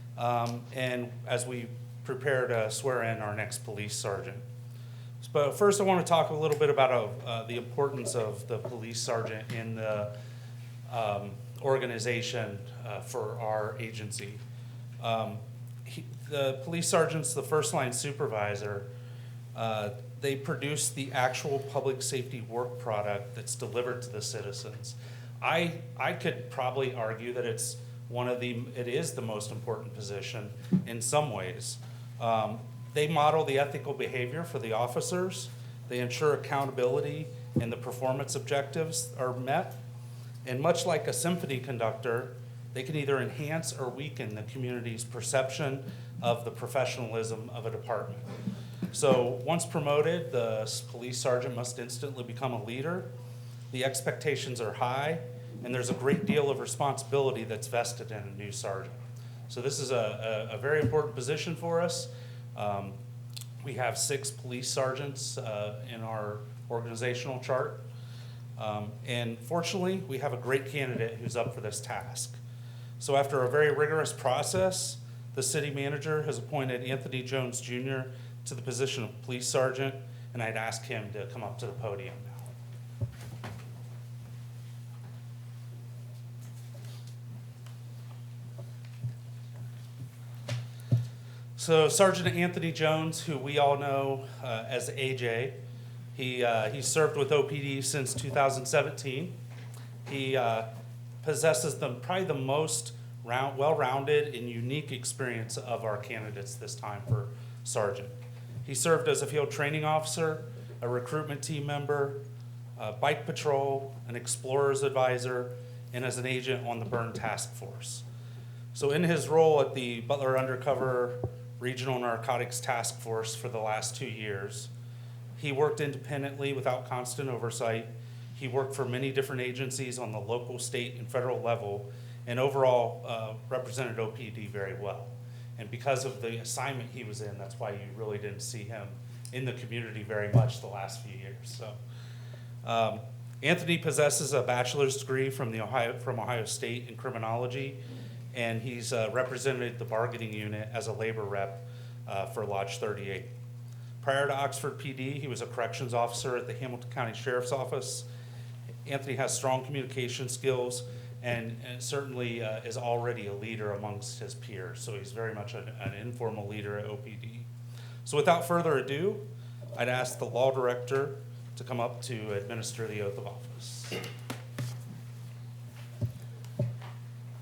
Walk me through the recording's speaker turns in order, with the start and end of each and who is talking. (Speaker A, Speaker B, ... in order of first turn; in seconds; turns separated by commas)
Speaker A: 0.2-4.4, Speaker A: 5.2-10.1, Speaker A: 10.9-14.4, Speaker A: 15.0-18.9, Speaker A: 19.6-39.8, Speaker A: 40.5-48.3, Speaker A: 48.9-53.1, Speaker A: 53.7-59.0, Speaker A: 59.5-63.0, Speaker A: 63.6-67.9, Speaker A: 68.6-72.4, Speaker A: 73.0-82.5, Speaker A: 91.6-95.6, Speaker A: 96.2-99.3, Speaker A: 100.1-100.7, Speaker A: 101.2-108.1, Speaker A: 108.7-112.2, Speaker A: 112.8-118.0, Speaker A: 118.7-124.7, Speaker A: 125.4-141.8, Speaker A: 142.6-147.8, Speaker A: 148.3-153.3, Speaker A: 154.0-158.1, Speaker A: 158.8-167.5, Speaker A: 168.1-174.0